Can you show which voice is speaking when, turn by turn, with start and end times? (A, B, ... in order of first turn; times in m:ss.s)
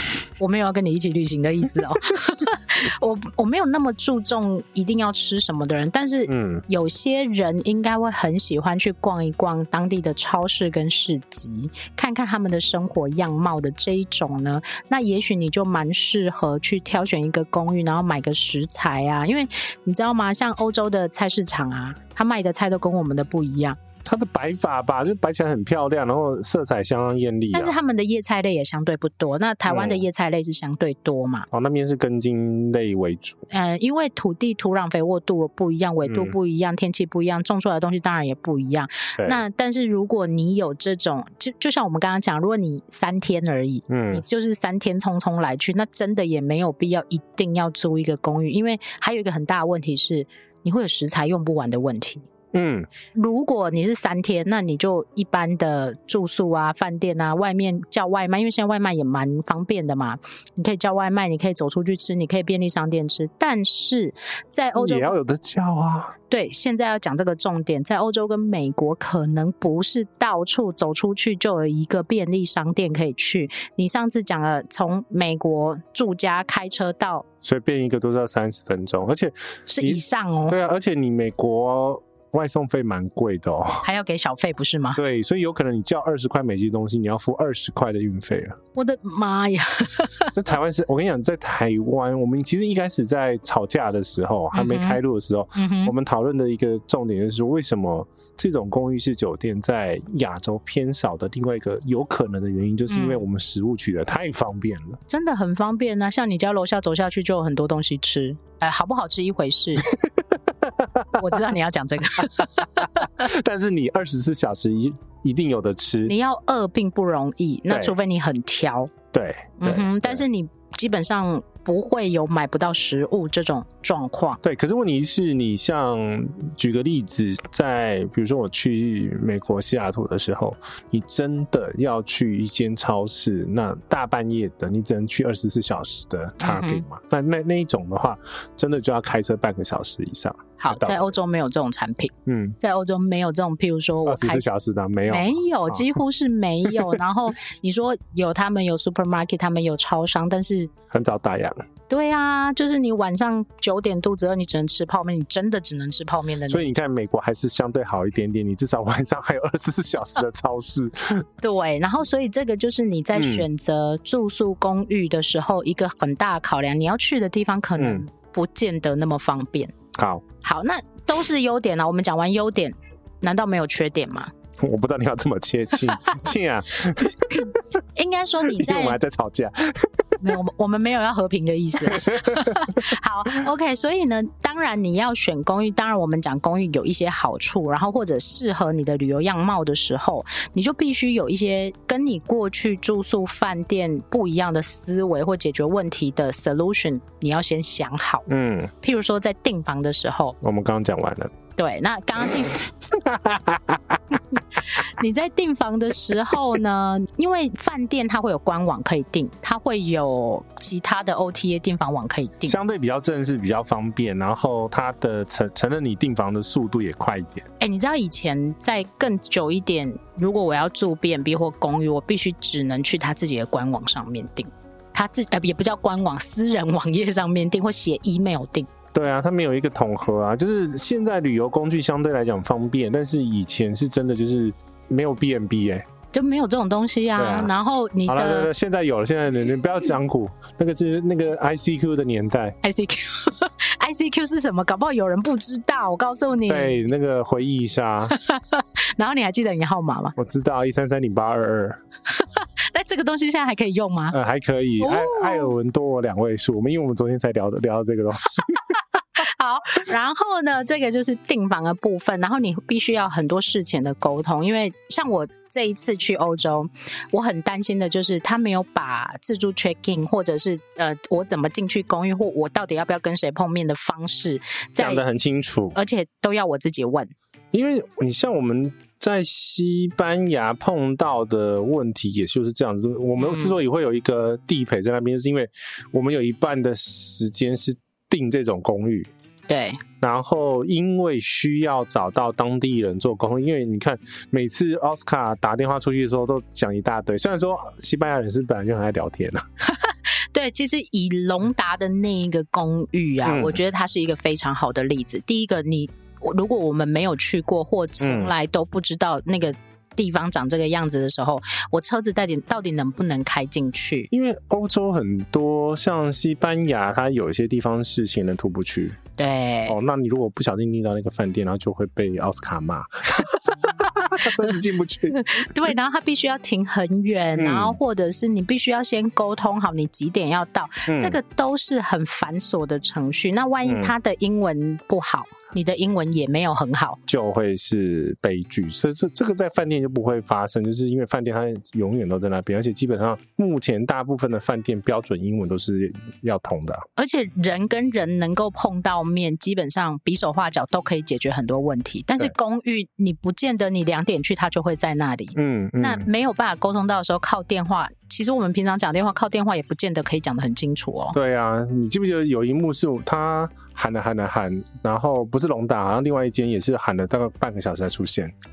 0:00.4-0:23.8 A
0:06.3-0:06.6 B
0:24.0-0:27.7 B
0:27.5-0:31.5 A
0:29.7-0:30.0 B
0:31.5-0:33.4 B
0:33.5-0:52.3 A
0:36.0-0:36.3 B
0:43.9-0:44.2 B
0:52.5-0:52.9 B
0:53.1-1:05.2 A
1:04.7-1:06.2 B
1:06.3-1:17.2 A
1:17.4-1:23.8 B
1:19.7-1:20.6 A
1:23.8-1:25.0 A
1:25.0-1:28.6 B
1:28.7-1:30.3 A
1:30.3-1:45.0 B
1:34.5-1:35.0 A
1:35.5-1:35.9 A
1:42.9-1:43.2 A
1:45.1-1:49.9 A
1:49.9-1:51.4 B
1:51.2-1:53.2 A
1:52.8-1:56.1 B
1:56.1-1:58.9 A
1:57.7-1:57.9 B
1:59.1-2:00.2 B
1:59.6-2:04.4 A
2:04.4-2:21.1 B
2:16.4-2:16.8 A
2:20.6-2:24.5 A
2:22.2-2:22.6 B
2:24.0-2:25.8 B
2:25.1-2:30.7 A
2:26.7-2:27.0 B
2:30.9-2:31.6 B
2:31.9-2:36.7 A
2:36.5-2:41.3 B
2:41.4-2:49.7 A
2:43.1-2:43.4 B
2:47.8-2:48.0 B
2:49.9-2:50.2 B
2:50.4-2:54.3 A
2:54.6-2:57.6 B
2:57.3-2:59.0 A
2:58.4-3:00.4 B
3:00.2-3:18.3 A
3:01.8-3:02.9 B
3:18.3-3:18.7 B
3:18.8-3:20.4 A
3:20.4-3:21.3 B
3:21.6-3:22.6 A
3:22.4-3:24.2 B
3:24.3-3:32.6 A
3:32.5-3:37.4 B
3:37.6-3:48.7 A
3:48.9-3:55.9 B
3:56.1-3:58.5 A
3:57.2-3:57.5 B
3:58.0-4:02.6 B
4:02.6-4:06.8 A
4:06.4-4:08.2 B
4:08.1-4:10.1 A
4:10.2-4:11.8 B
4:12.1-4:14.2 A
4:14.1-4:18.7 B
4:14.8-4:15.5 A
4:19.2-4:35.0 A
4:34.8-4:35.8 B
4:35.7-4:37.1 A
4:37.5-4:49.1 B
4:43.2-4:43.6 A
4:49.5-4:49.8 A
4:50.0-4:59.4 B
4:59.6-5:14.1 A
5:03.2-5:03.6 B
5:08.0-5:08.3 B
5:14.1-5:19.0 B
5:19.2-5:19.8 A
5:19.7-5:25.7 B
5:23.2-5:24.5 A
5:25.1-5:37.0 A
5:27.4-5:27.8 B
5:30.9-5:31.2 B
5:33.6-5:33.9 B
5:37.1-5:46.8 B
5:47.0-6:01.2 A
5:55.4-5:56.1 B
6:01.1-6:08.3 B